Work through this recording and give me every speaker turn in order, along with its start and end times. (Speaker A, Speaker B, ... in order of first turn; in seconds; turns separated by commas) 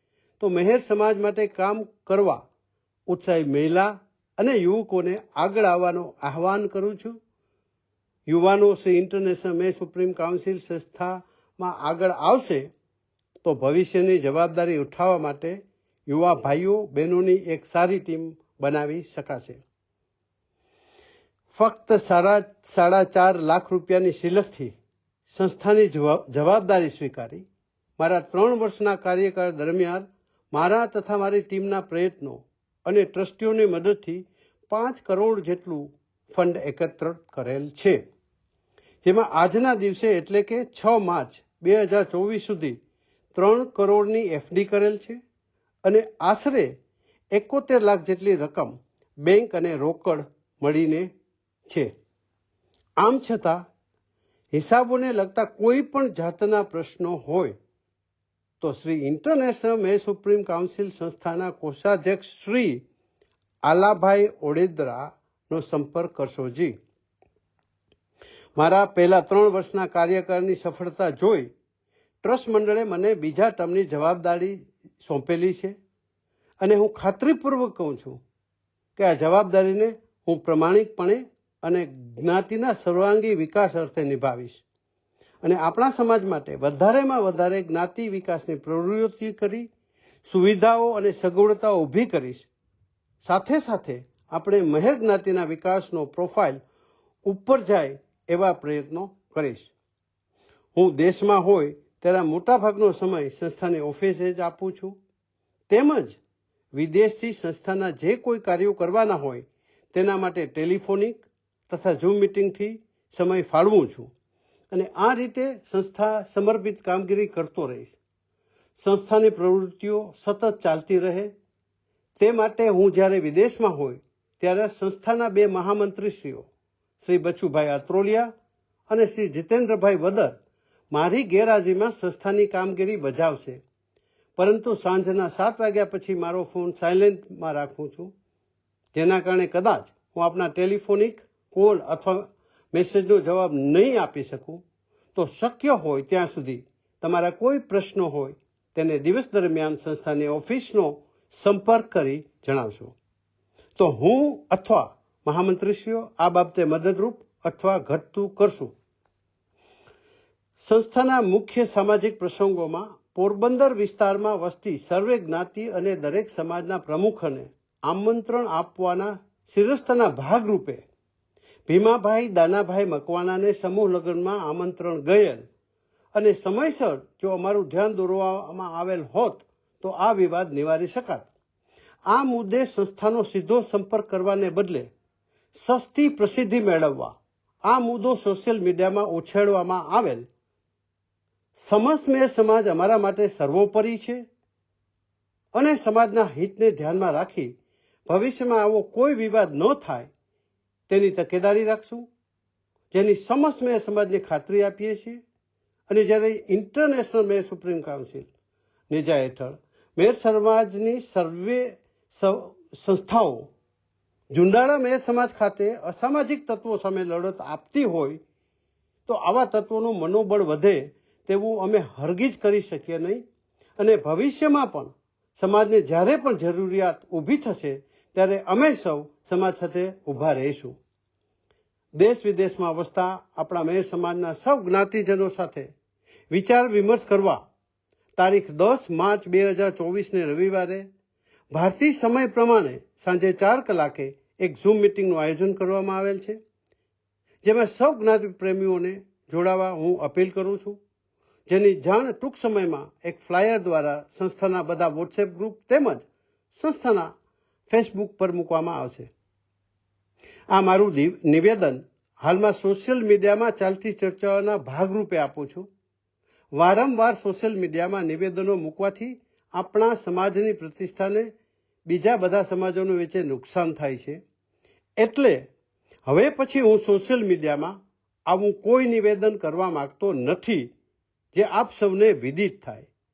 Speaker A: 0.4-2.5, Speaker A: 3.1-7.1, Speaker A: 8.3-12.7, Speaker A: 13.4-15.6, Speaker A: 16.1-19.6, Speaker A: 21.5-24.7, Speaker A: 25.3-27.4, Speaker A: 28.0-38.0, Speaker A: 39.0-42.8, Speaker A: 43.3-45.2, Speaker A: 45.8-46.7, Speaker A: 47.3-51.1, Speaker A: 53.0-53.6, Speaker A: 54.5-57.5, Speaker A: 58.6-62.8, Speaker A: 63.6-66.8, Speaker A: 68.5-71.5, Speaker A: 72.2-75.7, Speaker A: 76.6-78.2, Speaker A: 79.0-84.6, Speaker A: 85.4-89.7, Speaker A: 90.2-92.5, Speaker A: 93.2-96.6, Speaker A: 97.2-99.7, Speaker A: 100.7-104.9, Speaker A: 105.7-106.2, Speaker A: 106.7-114.1, Speaker A: 114.7-118.0, Speaker A: 118.8-121.3, Speaker A: 122.2-126.5, Speaker A: 127.0-128.3, Speaker A: 128.9-130.3, Speaker A: 130.9-133.6, Speaker A: 134.3-138.1, Speaker A: 138.9-144.6, Speaker A: 145.1-152.9, Speaker A: 153.8-158.7, Speaker A: 160.6-170.8, Speaker A: 171.7-175.4, Speaker A: 176.1-181.3, Speaker A: 182.1-184.9, Speaker A: 185.5-190.3, Speaker A: 191.6-194.2, Speaker A: 195.5-197.5, Speaker A: 198.1-200.1, Speaker A: 200.9-202.1, Speaker A: 202.9-205.2, Speaker A: 205.9-208.3, Speaker A: 208.9-213.5, Speaker A: 214.3-218.2, Speaker A: 219.1-223.2, Speaker A: 223.8-230.8, Speaker A: 232.0-235.7, Speaker A: 236.3-237.4, Speaker A: 238.2-240.9, Speaker A: 241.5-246.4, Speaker A: 247.4-250.8, Speaker A: 251.5-257.1, Speaker A: 257.7-259.1, Speaker A: 260.5-265.7, Speaker A: 266.5-271.3, Speaker A: 271.9-274.2, Speaker A: 275.0-275.5, Speaker A: 276.1-277.8, Speaker A: 278.3-280.7, Speaker A: 281.3-282.9